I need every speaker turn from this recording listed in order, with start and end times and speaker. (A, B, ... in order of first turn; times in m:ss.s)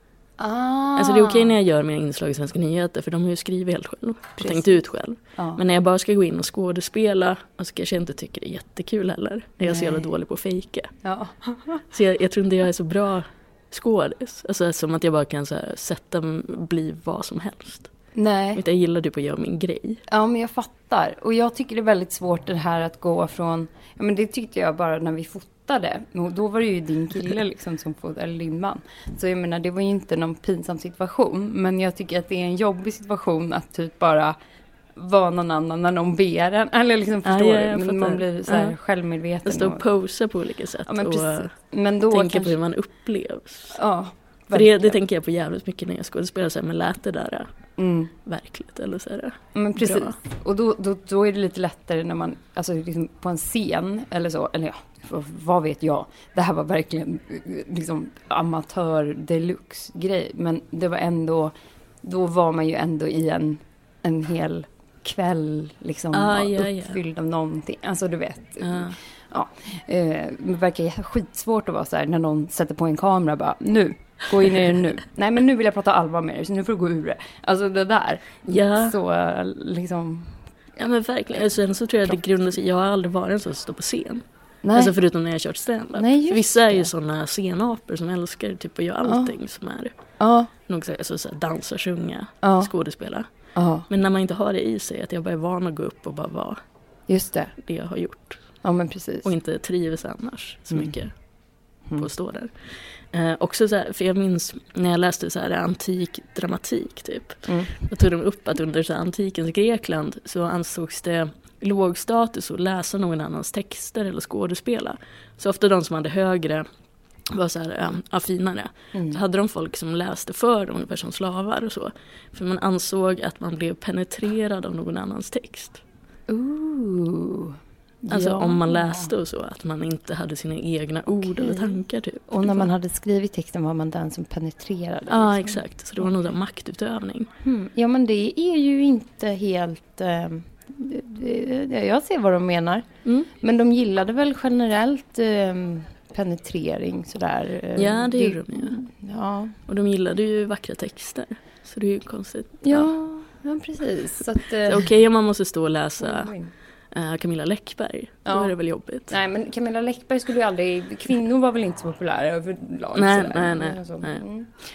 0:00.4-0:01.6 A
0:01.0-0:10.9 B
0:04.4-0:04.7 A
0:05.4-0:05.6 A
0:09.6-0:10.0 A
0:11.0-0:11.8 A
0:11.9-0:17.9 B
0:18.1-0:18.6 A
0:18.5-0:20.0 B
0:20.1-0:34.4 A
0:35.0-0:39.9 A
0:37.2-0:38.7 B
0:39.4-0:41.5 B
0:40.9-0:42.6 A
0:42.1-0:43.8 B
0:43.7-0:45.0 A
0:44.5-0:47.5 B
0:47.8-0:48.1 A
0:48.2-0:50.1 B
0:49.5-1:20.4 A
1:06.1-1:07.0 B
1:08.6-1:09.0 B
1:18.4-1:19.0 B
1:20.8-1:29.9 B
1:24.6-1:24.9 A
1:25.9-1:26.9 A
1:29.0-1:29.4 A
1:30.2-1:30.5 A
1:30.7-1:33.2 B
1:32.4-1:32.7 A
1:33.5-1:33.9 A
1:33.9-1:36.6 B
1:37.1-1:37.5 A
1:37.6-1:38.4 B
1:38.6-1:39.3 A
1:39.2-1:41.1 B
1:42.0-1:56.6 B
1:47.4-1:47.8 A
1:57.3-2:05.8 B
1:58.9-1:59.2 A
2:06.3-2:09.1 A
2:08.1-2:12.7 B
2:11.2-2:16.1 A
2:15.1-2:17.3 B
2:17.4-2:29.6 A
2:27.8-2:28.8 B
2:29.7-2:32.9 B
2:32.6-2:34.9 A
2:34.6-2:36.3 B
2:36.0-2:36.5 A
2:36.9-2:39.1 B
2:38.2-2:38.5 A
2:39.1-2:44.5 A
2:42.9-2:44.2 B